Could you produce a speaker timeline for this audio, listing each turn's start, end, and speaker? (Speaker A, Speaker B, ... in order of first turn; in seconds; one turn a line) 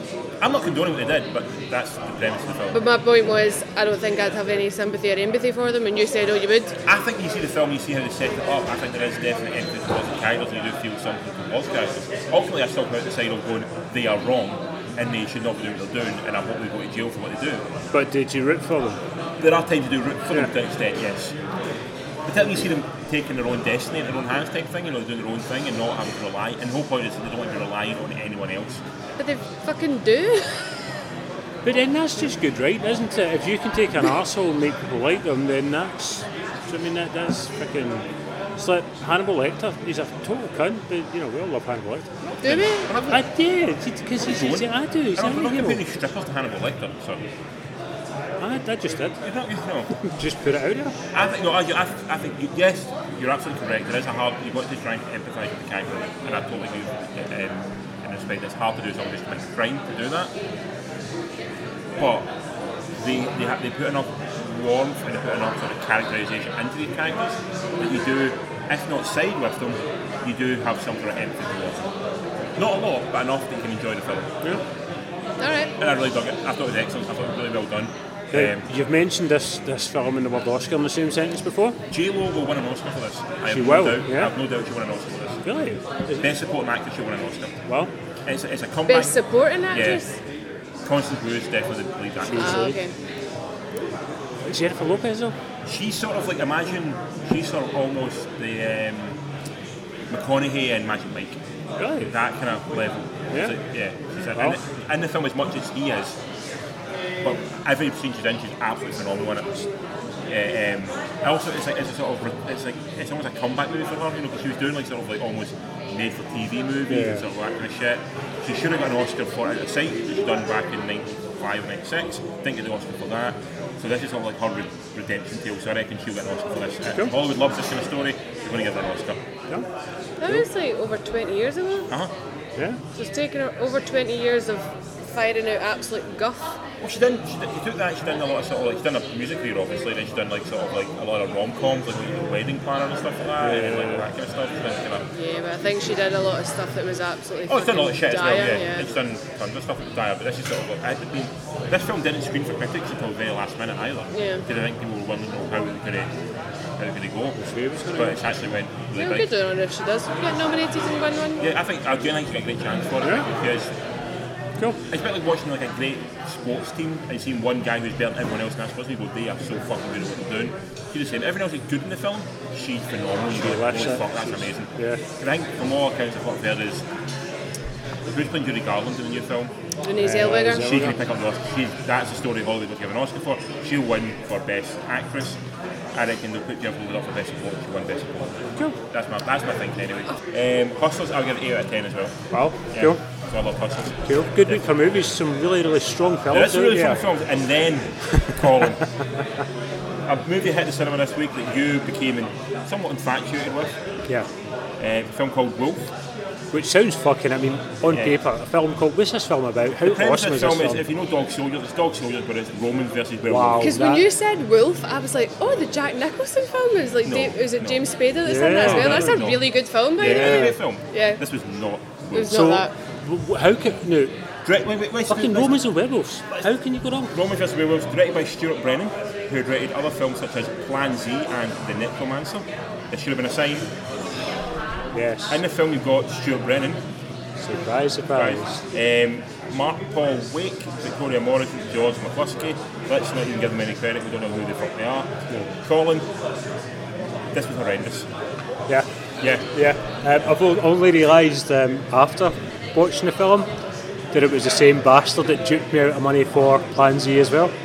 Speaker A: 0.4-2.8
Speaker B: 2.7-6.8
Speaker A: 6.8-17.7
Speaker C: 17.9-19.0
Speaker A: 19.4-21.4
Speaker A: 22.3-28.8
Speaker B: 29.2-30.6
Speaker C: 31.6-38.1
Speaker C: 38.6-42.1
Speaker A: 42.2-43.2
Speaker B: 42.4-43.0
Speaker C: 43.1-45.8
Speaker A: 44.2-47.2
Speaker C: 48.4-49.2
Speaker A: 49.2-49.9
Speaker C: 50.0-51.0
Speaker A: 51.1-60.3
Speaker A: 62.0-62.3
Speaker A: 63.0-71.9
Speaker A: 72.6-74.6
Speaker B: 75.4-75.7
Speaker A: 75.8-78.7
Speaker C: 78.3-81.8
Speaker A: 81.9-85.4
Speaker C: 83.5-84.3
Speaker C: 85.4-86.3
Speaker A: 86.2-87.5
Speaker C: 87.7-87.9
Speaker A: 88.3-89.1
Speaker B: 88.9-90.1
Speaker A: 89.7-90.0
Speaker A: 90.8-92.8
Speaker C: 92.2-92.8
Speaker B: 92.3-92.9
Speaker C: 94.5-95.3
Speaker A: 95.6-99.2
Speaker A: 100.1-101.4
Speaker C: 101.8-102.1
Speaker A: 102.0-106.2
Speaker A: 107.2-109.7
Speaker A: 110.3-129.2
Speaker C: 116.9-117.2
Speaker B: 130.2-131.9
Speaker B: 132.9-136.6
Speaker A: 136.8-145.1
Speaker C: 143.4-144.1
Speaker B: 145.1-148.9
Speaker A: 147.5-156.1
Speaker B: 154.1-154.4
Speaker A: 156.8-157.4
Speaker C: 157.4-158.2
Speaker A: 157.9-159.3
Speaker B: 158.9-161.5
Speaker A: 161.4-163.7
Speaker A: 164.9-176.8
Speaker C: 173.3-175.0
Speaker A: 178.1-179.5
Speaker B: 179.8-180.8
Speaker C: 180.0-181.0
Speaker A: 180.2-185.4
Speaker A: 185.9-192.2
Speaker C: 192.3-193.0
Speaker A: 192.7-194.7
Speaker C: 194.1-197.0
Speaker A: 196.3-198.8
Speaker A: 200.1-203.8
Speaker A: 204.8-205.9
Speaker C: 206.5-210.8
Speaker A: 207.9-208.2
Speaker A: 209.8-213.8
Speaker C: 213.3-214.1
Speaker B: 213.6-221.2
Speaker A: 217.0-217.8
Speaker C: 218.2-219.2
Speaker A: 218.6-222.5
Speaker C: 220.1-220.6
Speaker B: 222.1-222.7
Speaker C: 222.3-224.1
Speaker A: 224.4-225.6
Speaker C: 225.1-227.1
Speaker A: 227.1-233.7
Speaker C: 234.9-235.4
Speaker A: 235.3-236.8
Speaker C: 237.4-238.6
Speaker A: 238.2-246.1
Speaker A: 247.3-248.1
Speaker A: 249.2-249.5
Speaker C: 249.5-253.5
Speaker C: 254.1-257.5